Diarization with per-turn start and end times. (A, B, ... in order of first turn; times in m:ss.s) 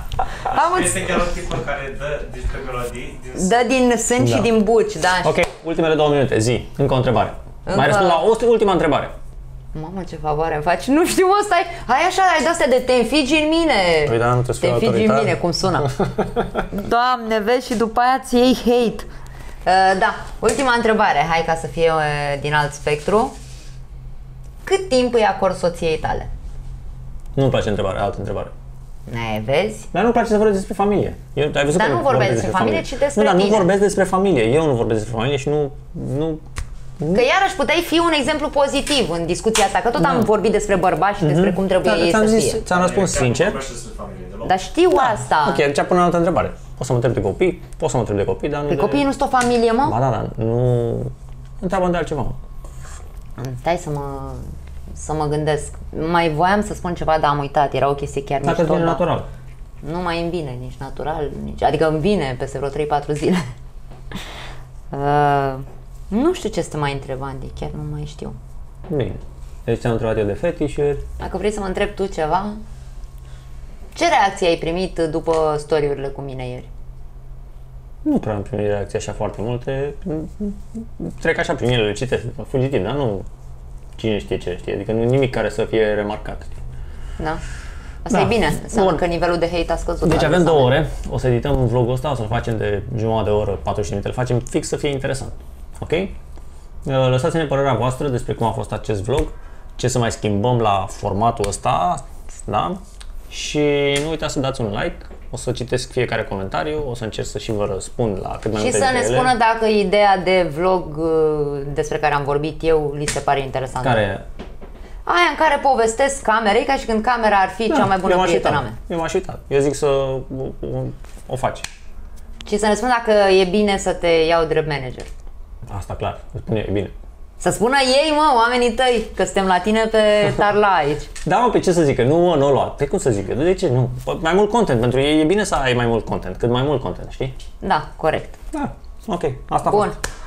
0:00.5-0:01.2 A
0:00.5-0:03.6 B
0:03.3-0:05.4 A
0:04.2-0:04.5 C
0:05.2-0:09.1 C
0:07.7-0:08.2 A
0:09.7-0:15.9 A
0:14.0-0:15.4 C
0:16.1-0:16.6 C
0:16.7-0:19.1 A
0:19.6-0:23.3 A
0:24.6-0:26.3 A
0:27.4-0:28.5 C
0:29.1-0:29.9 A
0:29.9-0:36.4 C
0:31.7-0:33.7 A
0:37.1-0:42.6 A
0:40.0-0:40.3 C
0:41.2-0:43.6 C
0:42.7-0:44.6 B
0:44.4-0:45.6 A
0:44.9-0:49.1 C
0:48.7-0:50.0 A
0:49.8-0:52.4 C
0:53.4-0:59.0 A
0:58.4-0:59.3 C
0:59.8-1:03.5 A
1:04.9-1:08.4 A
1:08.9-1:11.0 C
1:11.2-1:12.6 A
1:13.9-1:16.7 A
1:18.0-1:23.3 C
1:24.0-1:26.6 C
1:28.0-1:30.7 A
1:28.1-1:29.0 C
1:30.0-1:36.2 C
1:36.9-1:49.3 C
1:48.6-1:54.1 A
1:53.8-1:54.2 C
1:55.1-1:58.8 A
1:57.7-2:01.7 C
2:02.4-2:05.1 A
2:05.7-2:06.9 C
2:07.4-2:11.1 A
2:11.2-2:17.4 C
2:17.6-2:18.4 A
2:18.5-2:19.9 C
2:19.7-2:20.0 A